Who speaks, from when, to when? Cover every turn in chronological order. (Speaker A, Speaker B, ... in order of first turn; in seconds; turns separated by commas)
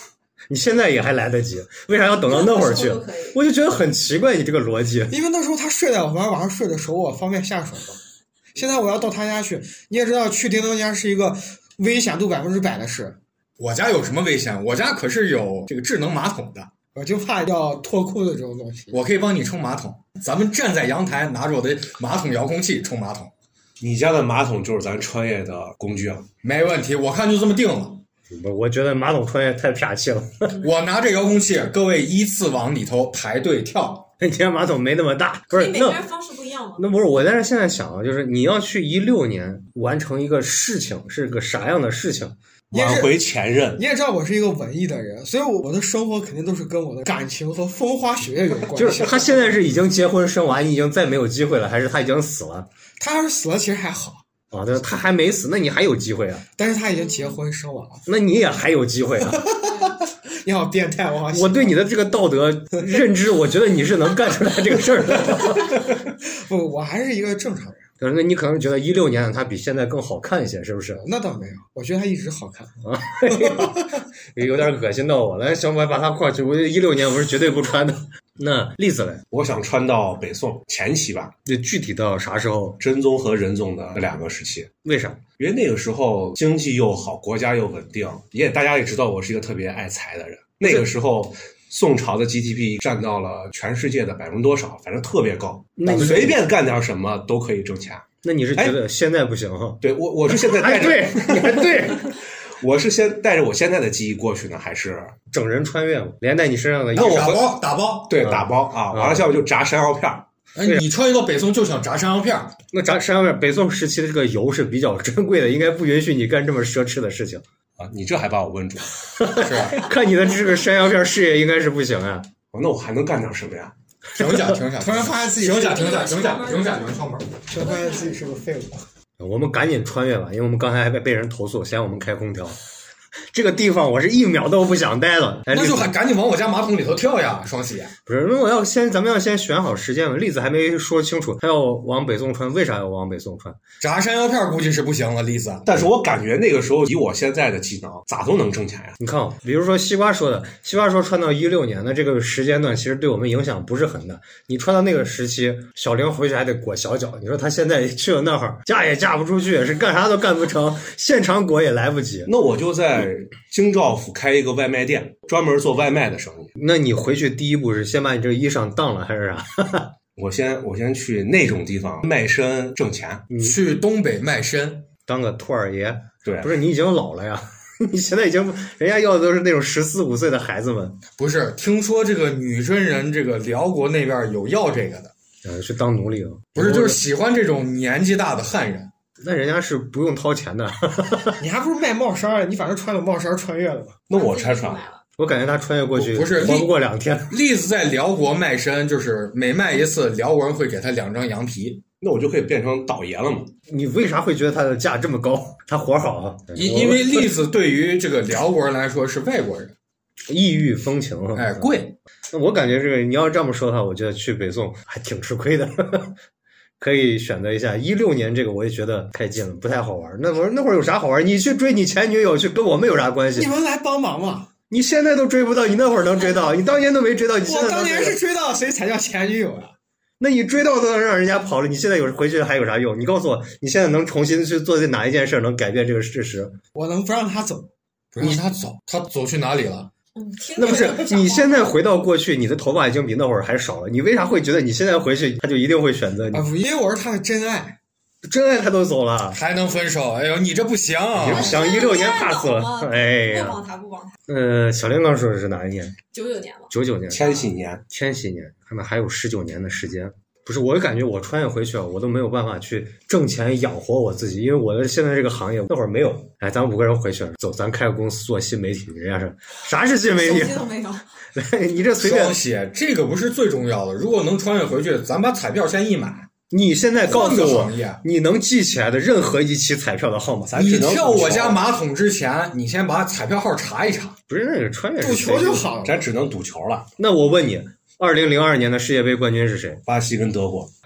Speaker A: 0.5-5.1, Speaker B: 2.3-3.4, Speaker C: 5.1-8.0, Speaker C: 8.5-13.2, Speaker D: 13.6-16.7, Speaker C: 16.9-19.0, Speaker D: 18.9-23.3, Speaker E: 23.8-26.2, Speaker D: 26.4-28.0, Speaker A: 28.3-30.5, Speaker D: 30.6-34.0, Speaker A: 34.2-36.0, Speaker B: 35.5-36.8, Speaker A: 36.8-42.4, Speaker E: 42.7-43.8, Speaker C: 42.7-43.2, Speaker C: 43.7-49.5, Speaker A: 48.7-52.7, Speaker C: 53.0-54.2, Speaker A: 54.5-56.4, Speaker C: 56.5-58.0, Speaker B: 56.9-57.4, Speaker A: 58.0-59.5, Speaker C: 59.3-61.8, Speaker A: 61.3-66.0, Speaker C: 65.2-67.8, Speaker A: 68.0-71.0, Speaker C: 71.0-73.9, Speaker A: 72.8-79.2, Speaker E: 79.3-81.3, Speaker A: 81.5-82.8, Speaker E: 82.8-84.7, Speaker A: 84.8-85.2, Speaker E: 85.4-98.0, Speaker A: 95.8-96.4, Speaker A: 98.2-102.2, Speaker E: 99.8-105.1, Speaker A: 105.3-107.4, Speaker D: 106.9-108.2, Speaker E: 107.0-107.4, Speaker E: 108.1-110.2, Speaker A: 108.2-109.3, Speaker D: 110.5-112.5, Speaker A: 112.7-117.4, Speaker E: 117.8-119.3, Speaker A: 119.2-122.3, Speaker D: 119.3-119.8, Speaker E: 122.5-123.7, Speaker D: 124.2-127.3, Speaker A: 124.2-124.5, Speaker C: 124.8-126.1, Speaker B: 125.5-128.4, Speaker C: 127.5-128.8, Speaker A: 129.2-132.6, Speaker A: 133.3-135.9, Speaker D: 135.5-137.9, Speaker A: 138.1-143.6, Speaker D: 143.8-145.7, Speaker E: 145.7-149.0, Speaker A: 149.0-162.3, Speaker E: 162.3-166.5, Speaker A: 166.6-169.9, Speaker E: 170.2-173.2, Speaker A: 173.3-173.6, Speaker D: 173.4-174.9, Speaker A: 175.1-181.0, Speaker E: 176.2-176.5, Speaker D: 181.2-185.1, Speaker A: 185.4-187.0, Speaker D: 186.6-188.9, Speaker A: 189.2-191.4, Speaker C: 191.4-194.0, Speaker E: 194.1-194.8, Speaker B: 194.1-195.0, Speaker A: 195.2-197.3, Speaker D: 195.9-196.7, Speaker D: 197.3-201.8, Speaker E: 202.0-203.5, Speaker A: 203.7-207.2, Speaker D: 206.5-209.7, Speaker A: 210.3-211.7, Speaker D: 211.3-211.9, Speaker A: 212.3-216.1, Speaker A: 216.8-223.5, Speaker C: 223.3-224.5, Speaker A: 224.7-228.2, Speaker C: 227.4-229.7, Speaker A: 230.2-236.6, Speaker C: 236.7-237.7, Speaker D: 238.1-239.9, Speaker B: 240.1-241.7, Speaker A: 240.6-246.4, Speaker C: 246.3-247.8, Speaker A: 248.2-249.4, Speaker D: 249.3-251.5, Speaker E: 251.2-251.6, Speaker A: 251.2-253.6, Speaker B: 251.3-254.2, Speaker A: 254.3-255.9, Speaker B: 256.1-256.7, Speaker A: 256.7-270.6, Speaker E: 257.1-257.8, Speaker B: 270.1-271.0, Speaker A: 271.3-272.4, Speaker D: 272.0-276.3, Speaker A: 276.5-280.6, Speaker D: 277.0-278.0, Speaker E: 280.5-281.6, Speaker D: 280.6-284.1, Speaker A: 284.3-285.7, Speaker C: 285.0-286.0, Speaker E: 285.8-286.9, Speaker A: 287.0-289.8, Speaker E: 289.9-290.7